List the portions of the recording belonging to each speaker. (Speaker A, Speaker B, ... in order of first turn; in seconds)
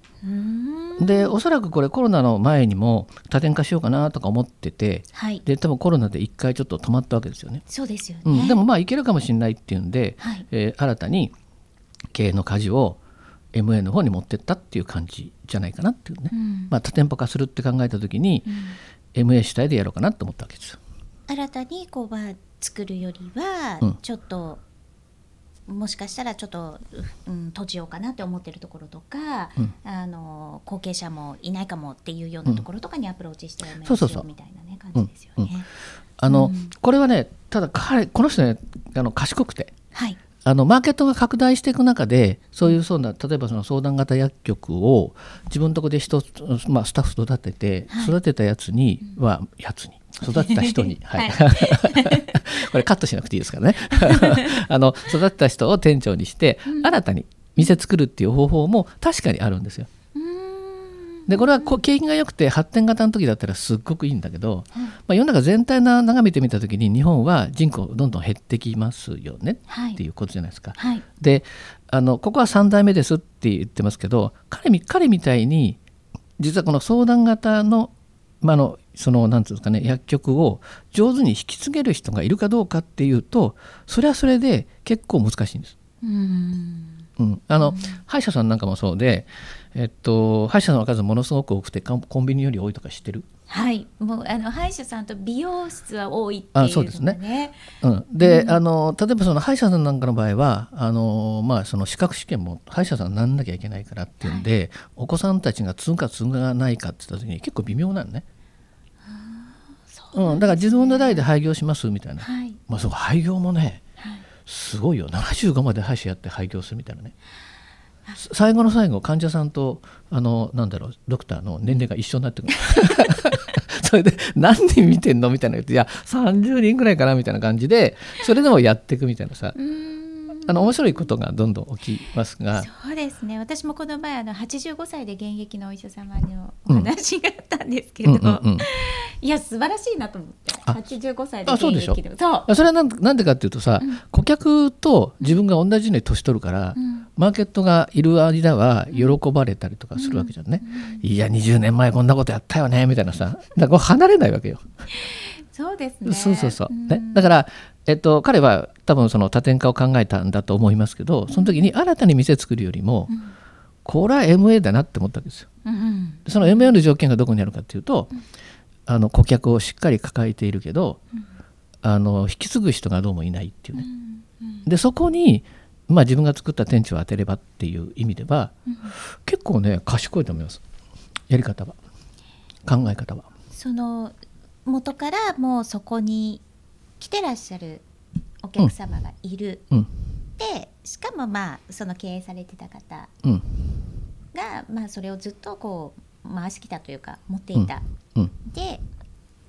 Speaker A: 0.2-1.3, 5.1-5.4, 7.7-8.6, 10.2-10.4, 16.3-16.7, 18.5-18.8, 21.3-24.6, 25.7-35.7, 36.3-36.7, 47.9-48.2, 50.3-52.6, 53.9-54.6, 56.7-56.9, 60.1-61.8, 69.7-70.0, 70.8-71.0, 86.0-87.1, 87.6-88.0, 93.5-97.6, 98.2-98.6, 104.2-104.5, 109.0-111.3, 112.2-112.6, 114.0-114.2, 129.6-131.1, 132.5-142.5, 146.8-147.1, 148.9-149.2, 150.0-151.0, 154.9-157.3, 161.3-161.7, 163.1-163.3, 165.7-166.7, 173.7-174.7, 178.7-178.9, 183.5-186.4, 187.0-187.8, 188.4-189.6, 190.4-193.1, 194.3-197.8, 198.4-198.8
Speaker B: 1.0-7.6, 8.2-11.3, 12.1-13.0, 13.5-18.5, 19.1-20.8, 33.8-34.3, 35.0-35.5, 36.2-39.7, 40.4-59.9, 61.3-75.8, 76.4-85.8, 87.2-93.3, 96.5-97.2, 97.8-108.2, 110.1-113.8, 114.5-117.1, 118.2-129.6, 130.5-132.7, 138.0-138.7, 141.5-154.6, 156.1-163.1, 163.8-165.5, 166.3-168.1, 168.9-171.0, 171.8-173.8, 174.7-178.5, 179.2-180.6, 181.3-181.8, 182.7-183.3, 197.6-198.3